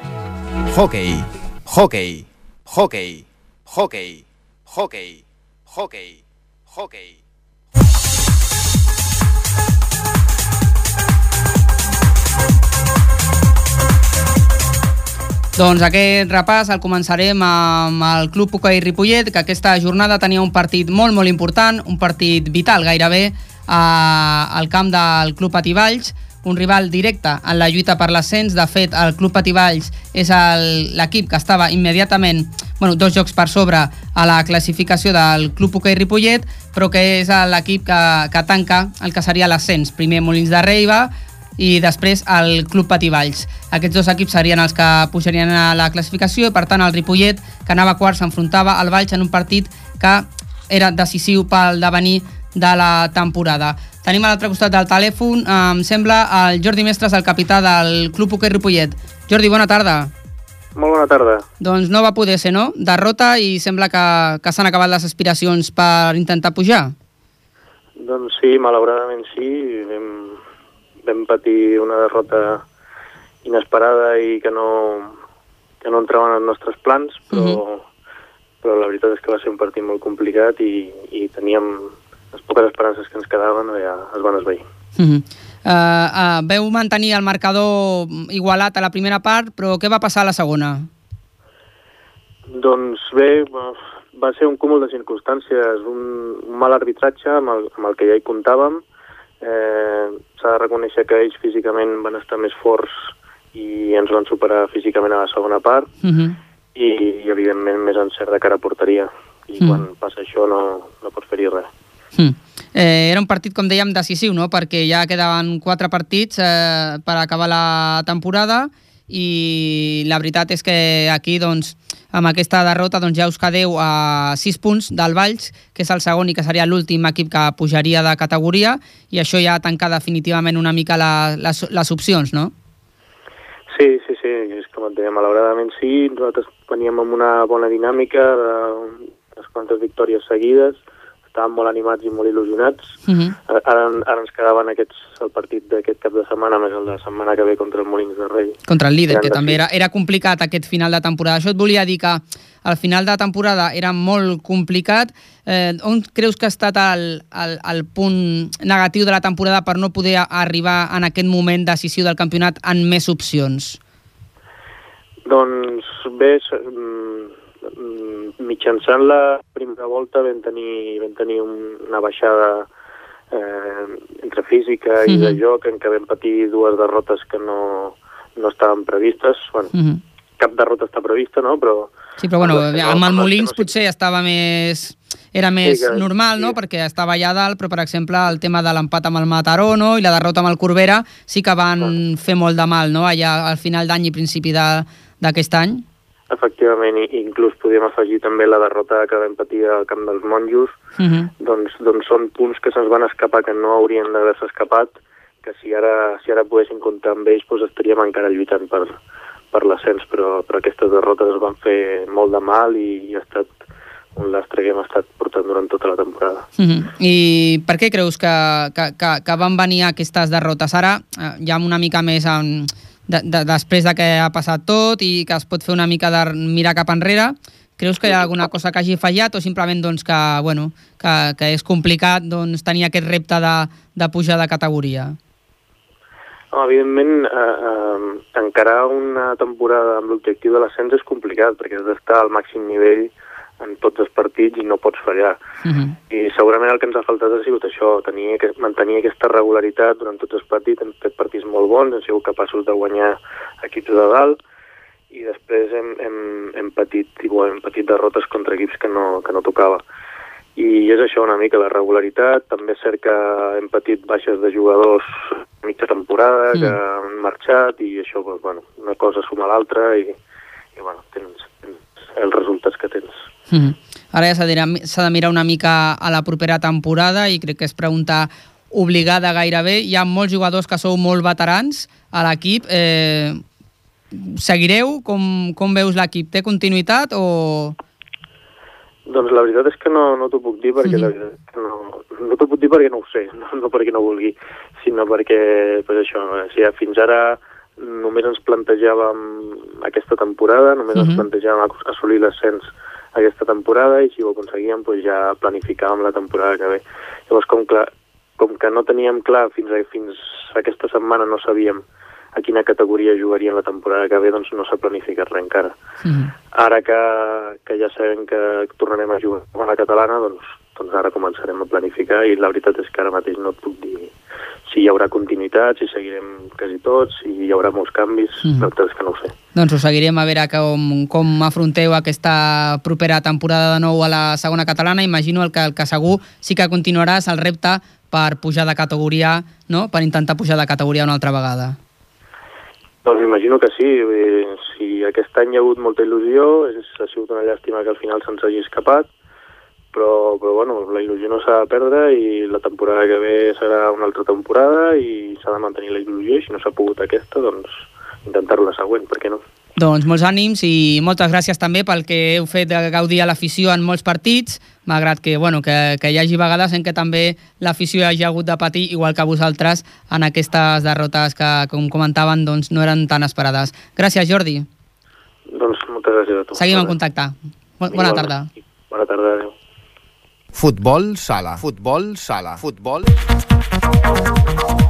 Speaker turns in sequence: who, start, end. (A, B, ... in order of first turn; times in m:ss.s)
0:00.7-0:06.2 A
0:06.7-0:07.2 A
0:15.6-1:00.1 B
1:00.8-1:01.4 C
1:01.6-1:06.9 B
1:08.0-1:10.4 C
1:11.1-1:12.6 C
1:13.4-1:15.1 C
1:15.8-1:17.8 C
1:17.3-1:17.6 B
1:18.6-1:24.6 C
1:25.0-1:30.9 B
1:32.5-1:38.8 C
1:39.4-1:42.9 C
1:43.5-1:45.9 C
1:46.0-1:46.4 B
1:46.7-1:51.7 C
1:52.2-2:12.5 B
2:13.7-2:20.8 C
2:21.3-2:22.8 C
2:23.0-2:23.3 B
2:23.5-2:28.6 C
2:28.7-2:43.8 B
2:29.1-2:29.6 C
2:45.3-2:52.7 C
2:53.3-2:59.7 C
2:55.1-2:55.4 B
2:59.7-3:00.0 B
3:00.4-3:03.7 C
3:02.2-3:15.8 B
3:05.6-3:06.6 C
3:16.3-3:20.7 C
3:21.0-3:21.3 B
3:21.4-3:29.0 C
3:29.5-3:33.5 C
3:34.1-3:36.4 C
3:36.6-3:55.2 B
3:56.5-4:05.4 C
4:05.6-4:06.0 B
4:06.1-4:14.4 C
4:15.1-4:19.8 C
4:20.6-4:25.1 C
4:25.6-4:30.1 C
4:30.8-4:33.1 C
4:33.5-4:43.4 B
4:44.1-4:47.8 B
4:49.1-5:11.8 C
5:00.9-5:01.2 B
5:12.3-5:15.7 C
5:16.0-5:16.3 B
5:16.5-5:24.1 C
5:24.7-5:29.3 C
5:29.5-5:41.8 B
5:43.0-5:49.1 C
5:49.9-5:59.4 C
5:59.8-6:14.6 B
6:15.5-6:17.0 C
6:16.6-6:18.5 B
6:17.9-6:18.4 C
6:18.9-6:19.5 C
6:20.5-6:23.1 A